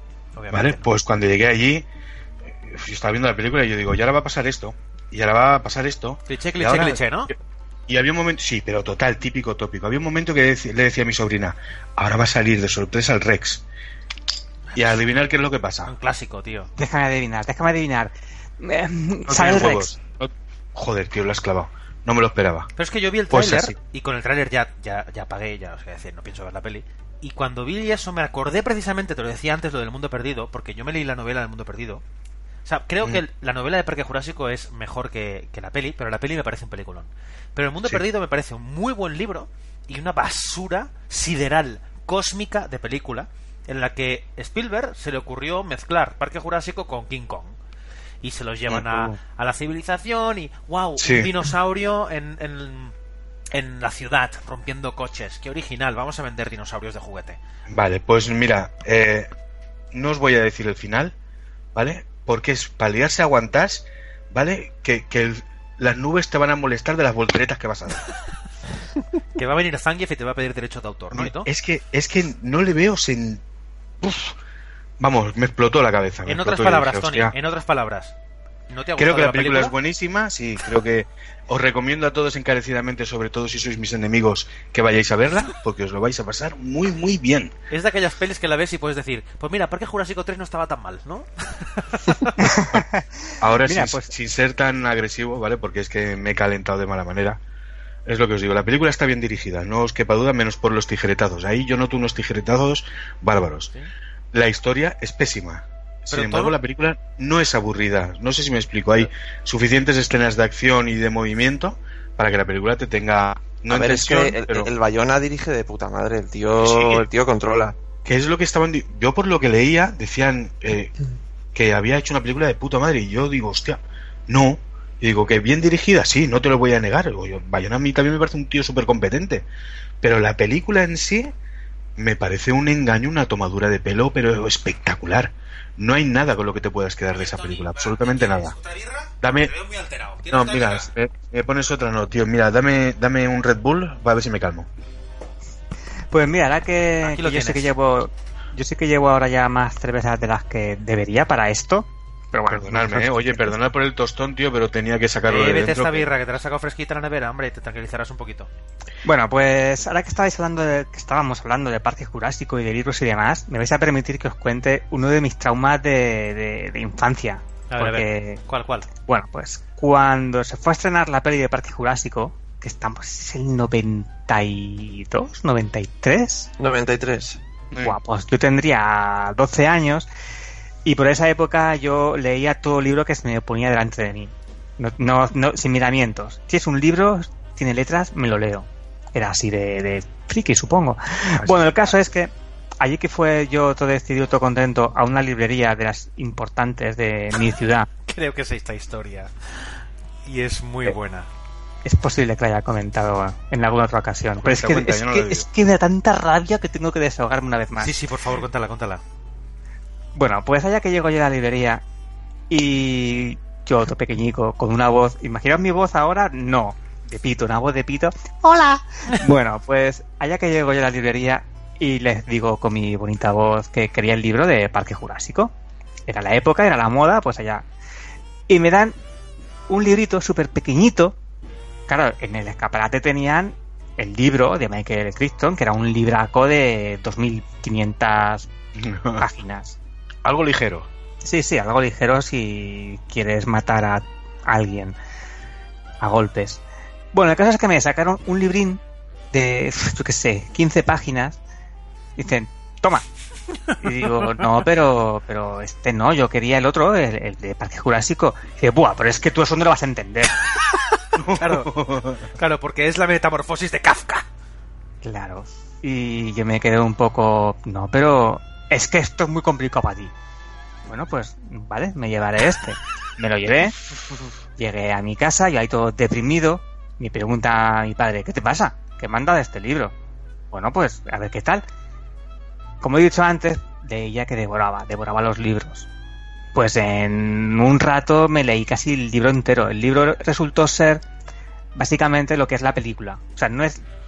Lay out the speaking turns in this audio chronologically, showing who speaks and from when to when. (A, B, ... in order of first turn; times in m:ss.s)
0:00.4-0:00.9 A
0:00.5-0:01.9 B
0:02.5-0:07.3 B
0:06.3-0:07.3 A
0:07.9-0:13.6 B
0:14.7-0:15.0 A
0:14.7-0:15.9 B
0:15.8-0:16.7 A
0:16.8-0:19.9 C
0:19.3-0:22.7 B
0:22.8-0:32.0 A
0:23.3-0:23.8 B
0:32.6-0:47.6 A
0:48.2-0:52.9 A
0:48.7-0:49.2 B
0:51.0-0:51.4 B
0:53.5-0:57.4 A
0:57.7-0:59.3 B
0:59.9-1:01.1 B
1:01.7-1:08.1 B
1:09.4-1:11.5 A
1:11.1-1:13.4 B
1:14.0-1:14.4 B
1:15.0-1:17.3 B
1:16.2-1:18.1 A
1:18.7-1:19.7 A
1:19.0-1:27.5 B
1:27.7-1:32.4 A
1:32.4-1:33.0 C
1:33.4-1:37.4 B
1:33.6-1:34.1 C
1:38.0-1:43.7 B
1:44.3-1:54.7 B
1:46.1-1:46.6 A
1:53.7-1:57.7 D
1:56.6-1:57.1 B
1:58.0-2:00.9 B
2:01.5-2:09.4 B
2:10.0-2:11.3 B
2:12.0-2:18.6 B
2:17.1-2:20.8 A
2:19.2-2:19.5 B
2:20.3-2:24.7 B
2:26.1-2:33.5 C
2:27.0-2:27.7 A
2:32.5-2:36.1 B
2:35.2-2:38.5 A
2:39.0-2:48.4 C
2:47.7-2:48.9 A
2:49.0-2:56.5 C
2:56.6-2:57.4 D
2:57.7-2:58.0 B
2:57.8-3:00.1 C
3:00.8-3:17.9 C
3:11.3-3:11.7 B
3:18.1-3:21.3 A
3:21.8-3:27.9 C
3:24.4-3:25.5 B
3:27.8-3:29.0 A
3:30.1-3:31.8 C
3:32.5-3:45.5 C
3:46.1-3:47.6 C
3:48.5-3:49.0 C
3:49.7-3:51.2 C
3:51.9-3:58.5 C
3:58.8-3:59.2 B
3:59.2-3:59.8 C
4:00.2-4:00.9 B
4:01.2-4:05.0 C
4:06.0-4:06.6 C
4:07.1-4:08.8 C
4:09.3-4:11.4 C
4:12.2-4:13.0 C
4:13.8-4:20.4 C
4:21.1-4:22.2 B
4:21.4-4:21.7 A
4:22.3-4:24.2 A
4:25.0-4:30.1 C
4:30.9-4:33.8 C
4:34.6-4:39.9 C
4:40.5-4:41.6 C
4:42.8-4:45.9 C
4:46.5-4:51.0 C
4:51.7-4:53.8 C